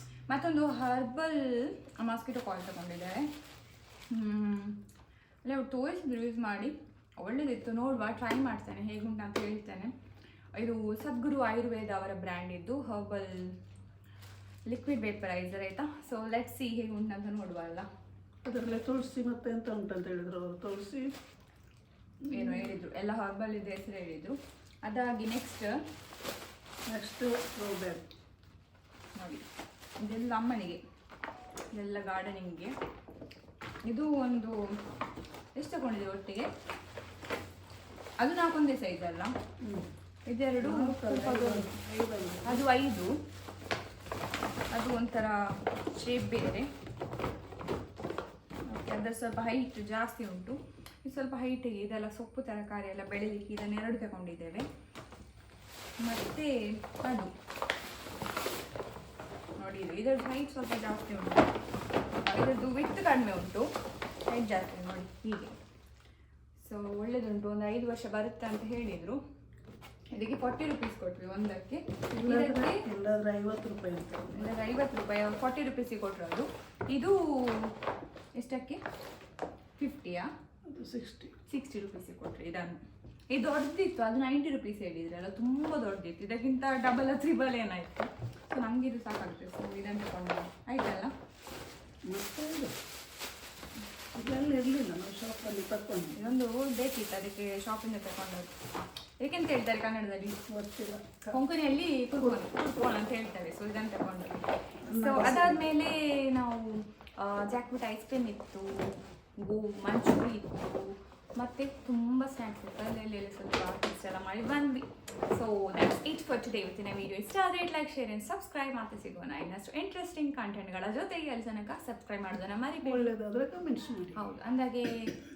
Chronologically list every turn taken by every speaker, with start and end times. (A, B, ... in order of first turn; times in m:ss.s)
0:00.3-0:03.3 A
0:04.1-0:04.8 A
0:05.4-0:09.9 A
0:10.5-0:13.5 A
0:14.7-0:17.9 A
0:18.4-0:21.1 B
0:22.3-0:25.8 A
0:22.3-0:22.7 B
0:26.9-0:28.1 B
0:29.1-0:29.4 A
0:30.0-0:30.8 A
0:31.7-0:32.7 A
0:33.8-0:34.6 A
0:35.5-0:36.5 A
0:38.2-0:39.3 A
0:40.3-0:41.6 A
0:40.6-0:42.6 B
0:42.4-0:43.1 A
0:44.7-0:45.4 A
0:45.9-0:46.7 A
0:48.7-0:54.6 A
0:56.0-0:57.3 A
0:59.6-1:01.5 A
1:02.2-1:03.7 A
1:04.3-1:05.6 A
1:06.6-1:09.2 A
1:10.1-1:12.8 A
1:12.1-1:14.4 B
1:14.3-1:17.7 A
1:18.4-1:18.8 A
1:19.8-1:20.3 A
1:20.7-1:21.3 B
1:21.5-1:22.8 A
1:23.3-1:31.1 A
1:32.1-1:32.8 B
1:34.1-1:36.1 B
1:36.2-1:38.5 A
1:39.2-1:40.4 A
1:40.5-1:41.4 B
1:41.3-1:44.4 A
1:44.9-1:45.6 B
1:45.0-2:03.1 A
2:02.8-2:04.2 B
2:04.2-2:05.1 A